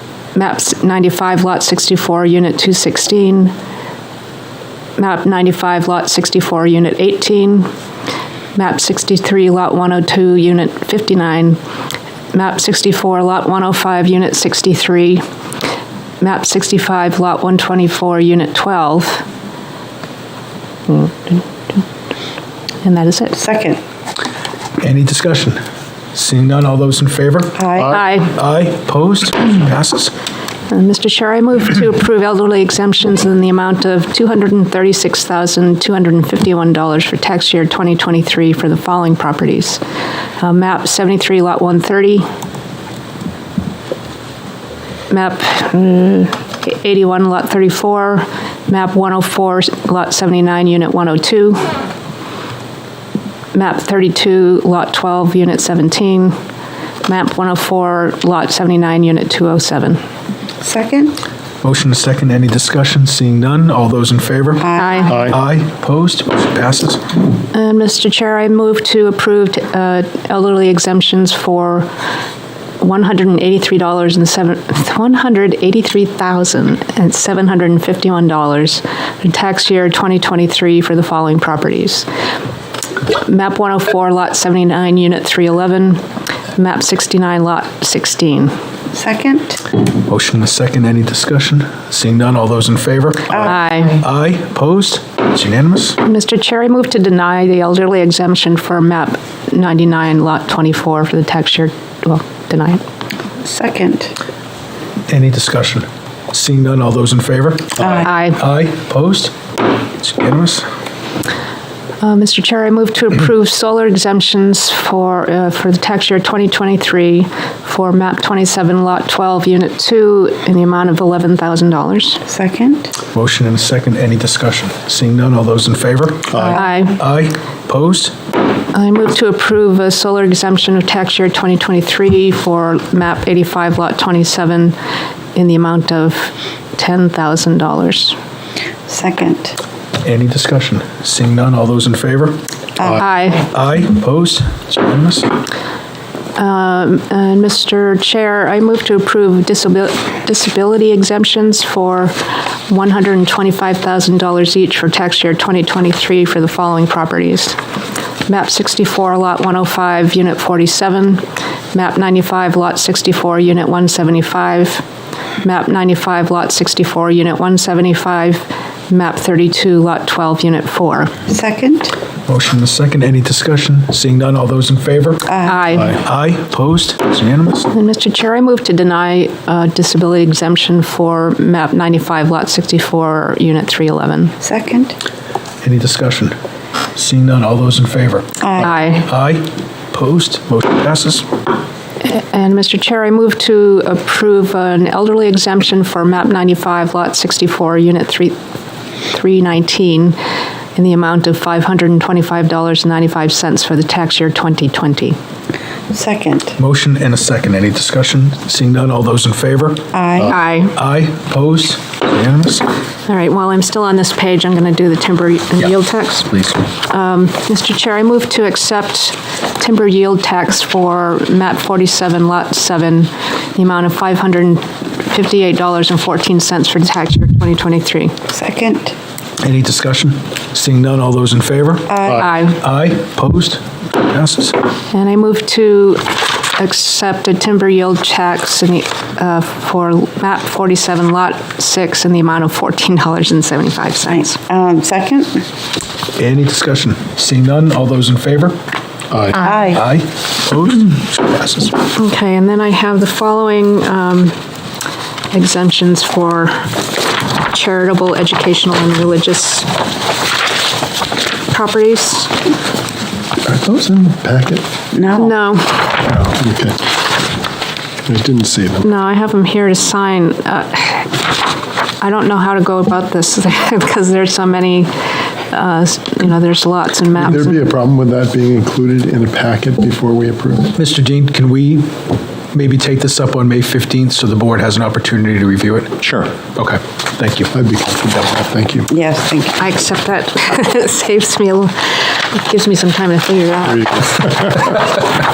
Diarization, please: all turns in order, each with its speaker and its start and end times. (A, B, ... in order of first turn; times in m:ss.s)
0:00.3-0:03.5 A
0:05.0-0:07.7 A
0:08.6-0:11.6 A
0:12.3-0:15.2 A
0:16.2-0:19.2 A
0:20.9-0:21.8 A
0:22.8-0:23.4 A
0:23.4-0:23.8 B
0:24.8-0:25.6 C
0:26.1-0:30.1 C
0:27.6-0:28.0 B
0:27.9-0:28.3 A
0:30.7-0:39.8 A
0:40.4-0:42.2 A
0:45.1-0:51.7 A
0:53.5-0:56.4 A
0:57.0-1:00.0 A
1:00.6-1:01.2 B
1:01.6-1:04.6 C
1:04.6-1:05.3 B
1:04.8-1:05.3 A
1:05.1-1:05.4 D
1:05.3-1:07.0 C
1:07.5-1:11.9 A
1:12.8-1:22.1 A
1:23.1-1:26.0 A
1:26.5-1:28.5 A
1:28.9-1:29.6 B
1:30.0-1:36.0 C
1:33.4-1:34.0 A
1:36.0-1:42.8 A
1:43.4-1:44.1 B
1:45.1-1:49.3 C
1:48.0-1:48.4 A
1:50.0-1:50.7 C
1:52.0-2:02.2 A
2:02.3-2:02.9 B
2:03.1-2:08.1 C
2:06.3-2:06.6 D
2:06.5-2:07.0 A
2:08.7-2:14.8 A
2:15.3-2:18.2 A
2:18.9-2:19.6 B
2:20.0-2:22.4 C
2:22.8-2:23.1 B
2:23.0-2:23.5 A
2:23.4-2:25.3 C
2:26.4-2:32.2 A
2:32.7-2:37.6 A
2:38.2-2:44.8 A
2:45.4-2:51.2 A
2:51.3-2:51.9 B
2:52.3-2:57.7 C
2:55.3-2:55.6 B
2:55.4-2:56.0 A
2:57.7-3:04.3 A
3:04.4-3:05.0 B
3:05.6-3:06.3 C
3:06.9-3:11.3 C
3:08.4-3:08.7 B
3:08.6-3:09.0 A
3:12.0-3:18.3 A
3:19.1-3:20.2 A
3:20.8-3:25.2 A
3:25.9-3:26.5 B
3:26.6-3:32.7 C
3:29.9-3:30.4 B
3:30.3-3:30.7 A
3:33.1-3:48.2 A
3:48.3-3:48.9 B
3:49.4-3:54.6 C
3:51.9-3:52.3 B
3:52.2-3:52.6 A
3:54.9-4:04.4 A
4:04.1-4:05.4 B
4:06.2-4:08.6 C
4:09.1-4:09.5 D
4:09.4-4:09.8 B
4:09.7-4:11.8 C
4:11.9-4:14.4 A
4:15.3-4:16.7 A
4:17.5-4:19.7 A
4:21.5-4:22.4 A
4:23.4-4:24.7 D
4:24.9-4:25.3 B
4:25.1-4:26.1 A
4:26.1-4:26.8 D
4:28.0-4:28.8 D
4:28.8-4:31.1 A
4:32.0-4:34.9 A
4:35.5-4:37.6 A
4:37.2-4:40.7 D
4:40.7-4:41.9 C
4:42.5-4:47.5 C
4:47.5-4:48.9 D
4:48.9-4:49.6 B
4:49.6-4:54.5 A
4:53.8-4:55.0 D